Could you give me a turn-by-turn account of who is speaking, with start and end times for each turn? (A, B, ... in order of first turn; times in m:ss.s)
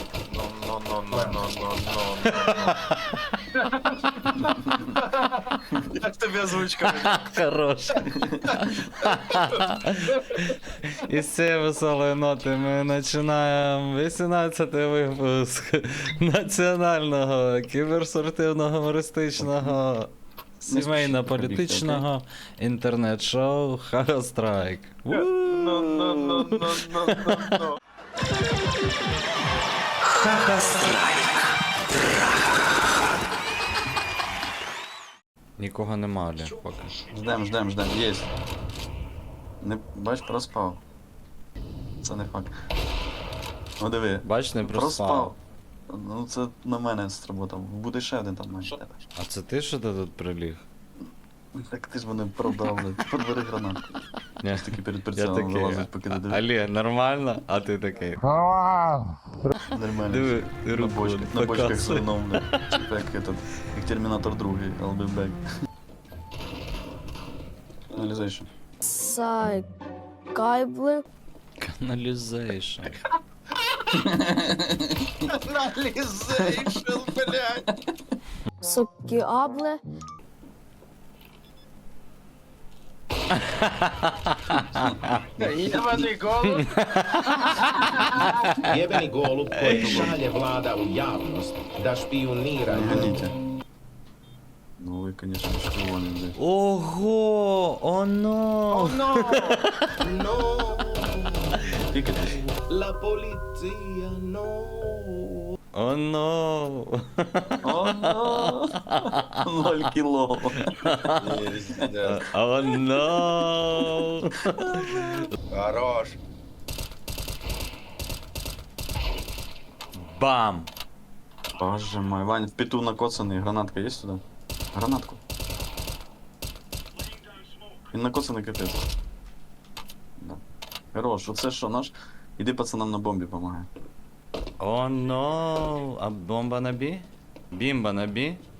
0:00.3-0:02.8 A
0:02.3-0:03.0 B
0:03.7-0:07.2 A
0:06.8-0:27.6 B
0:10.0-0:10.4 A
0:19.4-0:19.8 C
0:20.7-0:22.1 C
0:25.1-0:27.8 A
0:30.3-0:30.9 B
0:35.6-0:36.9 B
0:37.1-0:38.3 C
0:39.6-0:40.8 C
0:42.0-0:42.5 C
0:43.8-0:49.0 C
0:44.2-0:45.3 B
0:49.2-0:50.6 B
0:51.6-0:53.8 C
0:54.4-0:58.6 B
0:54.5-0:56.4 C
0:59.6-1:05.5 C
1:00.1-1:02.8 B
1:07.9-1:08.5 C
1:08.8-1:09.7 D
1:10.3-1:11.1 D
1:11.6-1:13.0 B
1:13.6-1:14.0 A
1:14.0-1:15.0 C
1:15.2-1:17.6 A
1:18.6-1:19.8 D
1:23.5-1:25.2 B
1:25.4-1:26.7 A
1:26.5-1:28.6 B
1:28.6-1:33.2 E
1:29.6-1:30.2 B
1:29.6-1:30.2 C
1:32.7-1:33.3 C
1:34.8-1:36.4 C
1:36.4-1:39.8 B
1:38.8-1:39.5 A
1:40.0-1:45.6 E
1:41.9-1:42.4 C
1:45.7-1:49.4 B
1:47.6-1:50.8 C
1:50.7-1:51.4 B
1:51.2-1:52.2 A
1:52.1-1:55.3 B
1:55.5-1:56.2 A
2:00.0-2:00.7 B
2:01.6-2:04.2 C
2:04.7-2:05.2 C
2:07.9-2:08.8 C
2:10.9-2:13.7 C
2:14.6-2:18.4 B